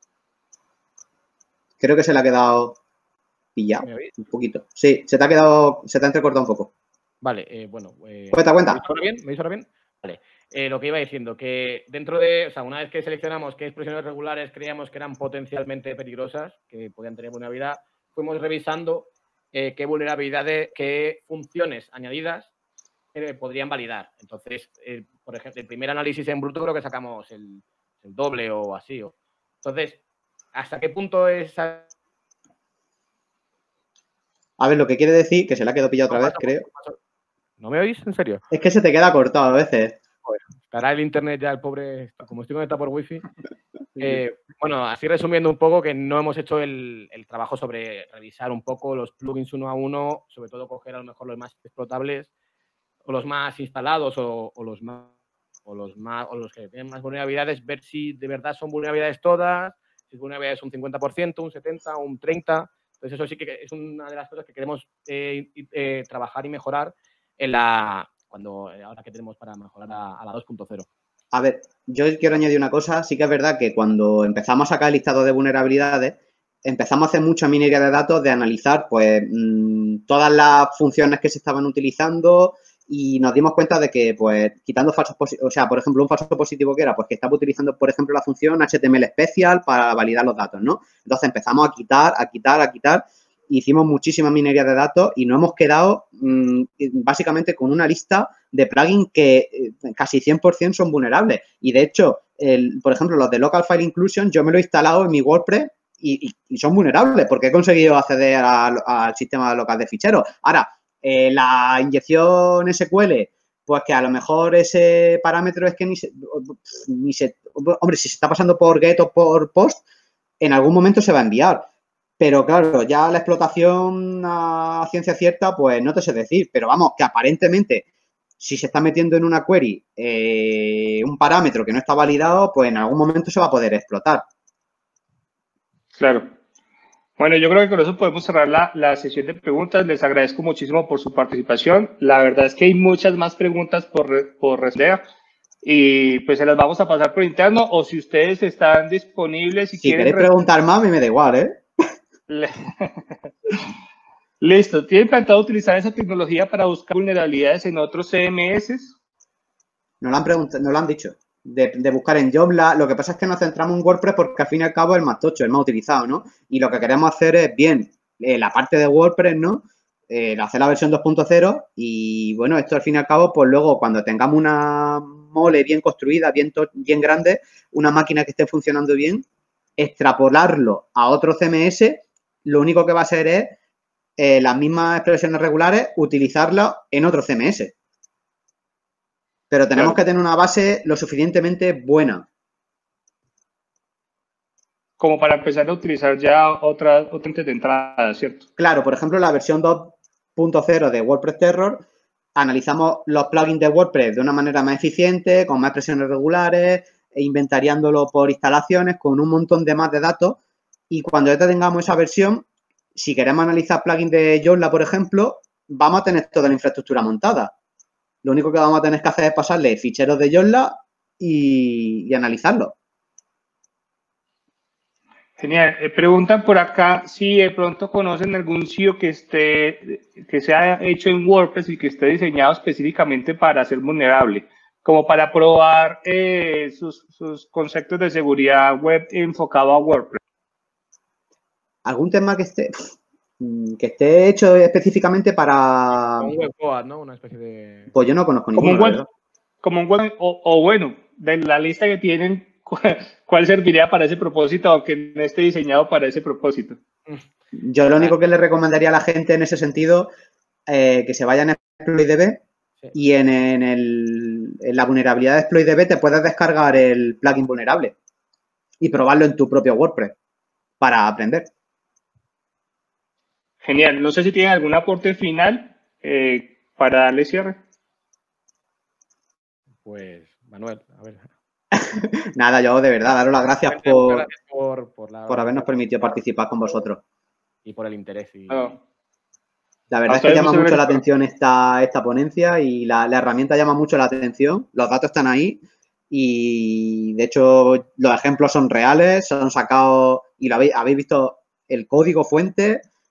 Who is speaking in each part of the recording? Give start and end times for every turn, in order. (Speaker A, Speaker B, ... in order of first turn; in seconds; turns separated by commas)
Speaker A: 1.8-2.8, Speaker A: 3.5-6.7, Speaker B: 3.8-4.1, Speaker B: 7.2-22.5, Speaker A: 8.3-8.8, Speaker B: 23.1-30.0, Speaker B: 30.5-31.9, Speaker A: 34.6-36.6, Speaker B: 36.1-37.0, Speaker B: 37.6-38.4, Speaker A: 38.5-40.0, Speaker B: 40.2-43.2, Speaker B: 44.0-52.3, Speaker B: 53.0-55.1, Speaker B: 55.6-70.9, Speaker A: 71.3-119.8, Speaker A: 120.4-121.7, Speaker A: 122.2-127.8, Speaker A: 128.4-134.2, Speaker C: 135.9-136.3, Speaker C: 137.2-145.0, Speaker C: 145.6-150.3, Speaker A: 149.8-151.6, Speaker C: 152.3-153.6, Speaker C: 154.4-158.9, Speaker A: 160.0-179.2, Speaker A: 179.8-183.6, Speaker A: 184.2-187.7, Speaker A: 189.5-192.2, Speaker C: 195.0-198.4, Speaker A: 198.6-210.4, Speaker A: 210.9-212.4, Speaker A: 212.9-217.5, Speaker A: 218.2-222.7, Speaker C: 225.4-240.2, Speaker A: 241.8-246.3, Speaker B: 246.0-247.9, Speaker A: 247.9-249.1, Speaker C: 248.6-249.0, Speaker C: 249.6-256.8, Speaker A: 257.5-260.1, Speaker A: 260.7-267.9, Speaker A: 268.8-270.1, Speaker A: 270.8-271.5, Speaker C: 273.6-277.6, Speaker B: 279.8-281.3, Speaker A: 281.7-284.3, Speaker B: 283.6-286.2, Speaker A: 285.3-287.0, Speaker B: 287.6-288.8, Speaker C: 288.5-288.7, Speaker A: 289.9-302.9, Speaker C: 290.1-291.0